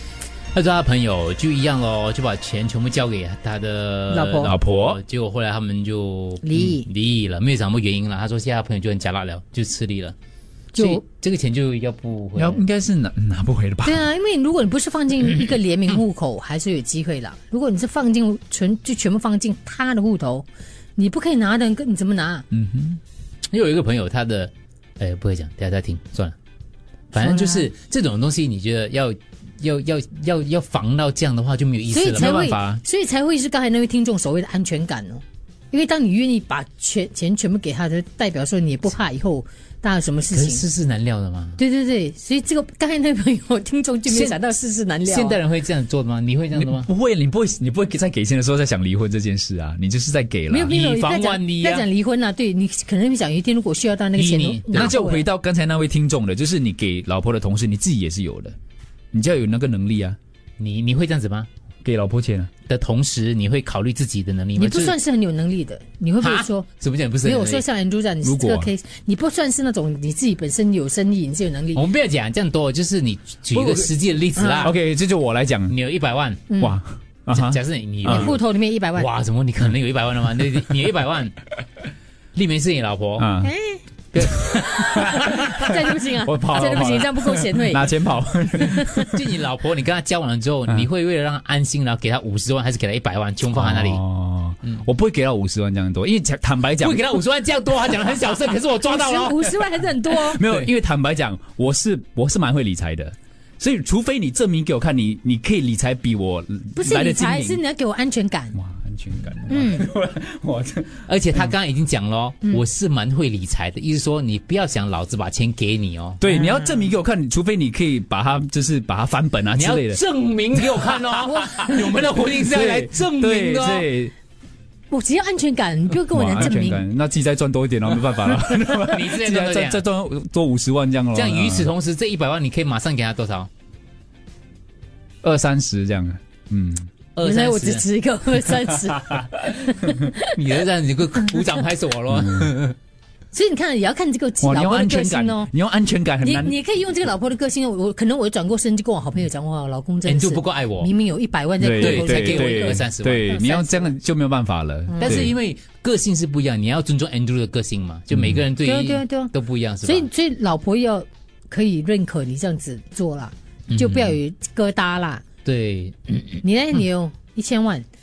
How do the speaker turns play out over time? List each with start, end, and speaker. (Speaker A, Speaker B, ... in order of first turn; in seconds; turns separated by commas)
Speaker A: 0.5-10.2, Speaker B: 4.1-4.5, Speaker C: 4.4-5.0, Speaker B: 6.4-6.9, Speaker A: 10.8-12.6, Speaker B: 10.8-11.0, Speaker C: 12.4-14.1, Speaker B: 13.8-20.5, Speaker B: 21.0-22.5, Speaker C: 22.5-23.0, Speaker A: 23.5-26.4, Speaker A: 27.1-32.8, Speaker B: 27.1-27.7, Speaker B: 31.9-40.6, Speaker A: 40.3-41.6, Speaker B: 41.6-45.4, Speaker A: 44.1-44.4, Speaker A: 45.0-46.9, Speaker C: 46.5-50.7, Speaker B: 50.5-55.3, Speaker A: 50.7-51.9, Speaker A: 54.2-54.9, Speaker C: 54.7-58.6, Speaker C: 59.1-60.2, Speaker A: 60.6-61.5, Speaker C: 61.8-62.5, Speaker A: 62.7-65.0, Speaker B: 64.6-66.7, Speaker A: 66.2-67.6, Speaker B: 67.2-71.9, Speaker C: 68.2-68.7, Speaker A: 71.8-74.8, Speaker B: 74.4-74.7, Speaker C: 74.6-75.8, Speaker A: 75.7-76.4, Speaker B: 76.5-76.8, Speaker C: 76.6-78.3, Speaker A: 77.3-78.4, Speaker B: 78.0-79.1, Speaker A: 79.0-81.4, Speaker A: 82.3-83.3, Speaker C: 83.2-83.5, Speaker B: 83.4-83.8, Speaker A: 84.1-85.7, Speaker B: 84.6-88.0, Speaker C: 86.1-89.2, Speaker B: 88.6-89.1, Speaker A: 89.0-94.0, Speaker C: 93.5-97.0, Speaker A: 96.8-99.6, Speaker B: 98.8-100.4, Speaker C: 100.1-107.6, Speaker A: 100.4-100.7, Speaker B: 106.8-108.6, Speaker C: 108.5-111.1, Speaker B: 109.5-109.9, Speaker A: 111.1-116.2, Speaker C: 116.2-120.0, Speaker B: 116.2-116.9, Speaker A: 119.5-123.9, Speaker B: 121.3-121.9, Speaker C: 122.4-124.1, Speaker B: 124.9-126.9, Speaker C: 126.1-131.7, Speaker A: 128.8-129.8, Speaker A: 131.1-133.5, Speaker C: 135.2-136.9, Speaker A: 137.2-137.9, Speaker B: 137.2-140.3, Speaker A: 140.2-142.8, Speaker B: 143.3-145.5, Speaker C: 144.4-146.6, Speaker B: 146.2-153.9, Speaker A: 150.1-150.9, Speaker C: 151.6-155.3, Speaker A: 151.7-153.4, Speaker B: 154.9-155.3, Speaker A: 155.0-160.1, Speaker B: 158.6-159.3, Speaker B: 159.8-165.2, Speaker A: 163.7-164.2, Speaker A: 165.4-166.4, Speaker B: 166.4-167.8